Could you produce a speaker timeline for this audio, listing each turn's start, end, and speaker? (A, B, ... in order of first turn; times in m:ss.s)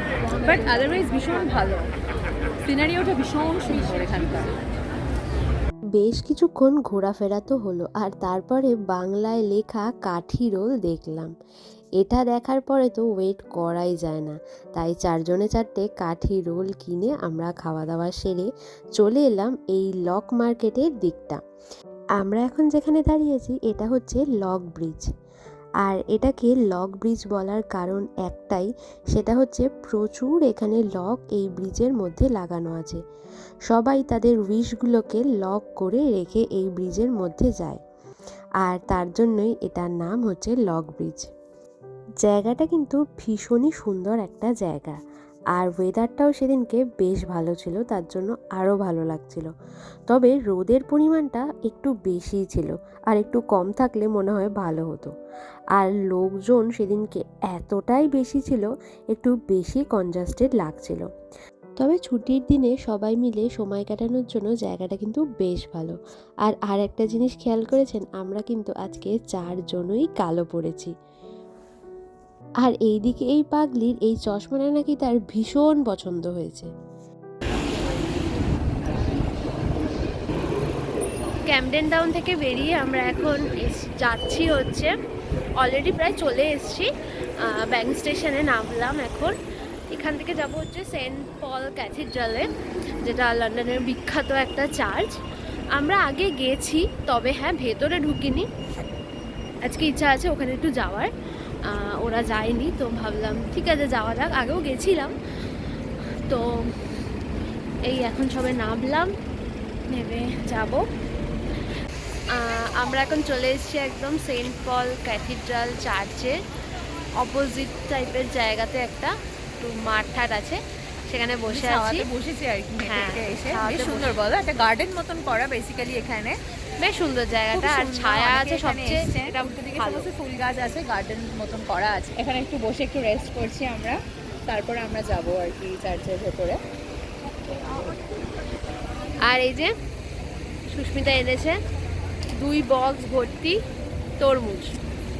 0:00.2-0:00.8 A
0:00.4-0:01.8 B
0:02.6-0:04.4 B
0:05.9-0:11.3 C
0:12.0-0:21.4 C
0:22.2-0:25.1 C
0:25.8-0:33.0 C
0:33.7-0:37.8 C
0:38.6-0:41.3 C
0:42.2-0:45.0 C
0:45.5-0:49.5 C
0:50.1-0:55.1 C
0:55.7-1:01.0 C
1:01.8-1:10.9 C
1:12.6-1:16.7 C
1:21.5-1:24.9 A
1:25.6-1:26.9 A
1:27.4-1:29.3 A
1:29.9-1:32.5 A
1:33.0-1:35.1 A
1:35.7-1:38.4 A
1:39.6-1:41.1 A
1:41.6-1:45.1 A
1:47.9-1:49.1 A
1:49.9-1:50.8 A
1:52.3-1:56.4 A
1:57.2-2:02.0 A
2:01.5-2:06.4 B
2:02.8-2:04.1 A
2:06.8-2:10.0 A
2:07.5-2:16.6 B
2:19.2-2:19.7 A
2:20.7-2:21.6 A
2:22.4-2:23.6 A
2:24.2-2:24.7 A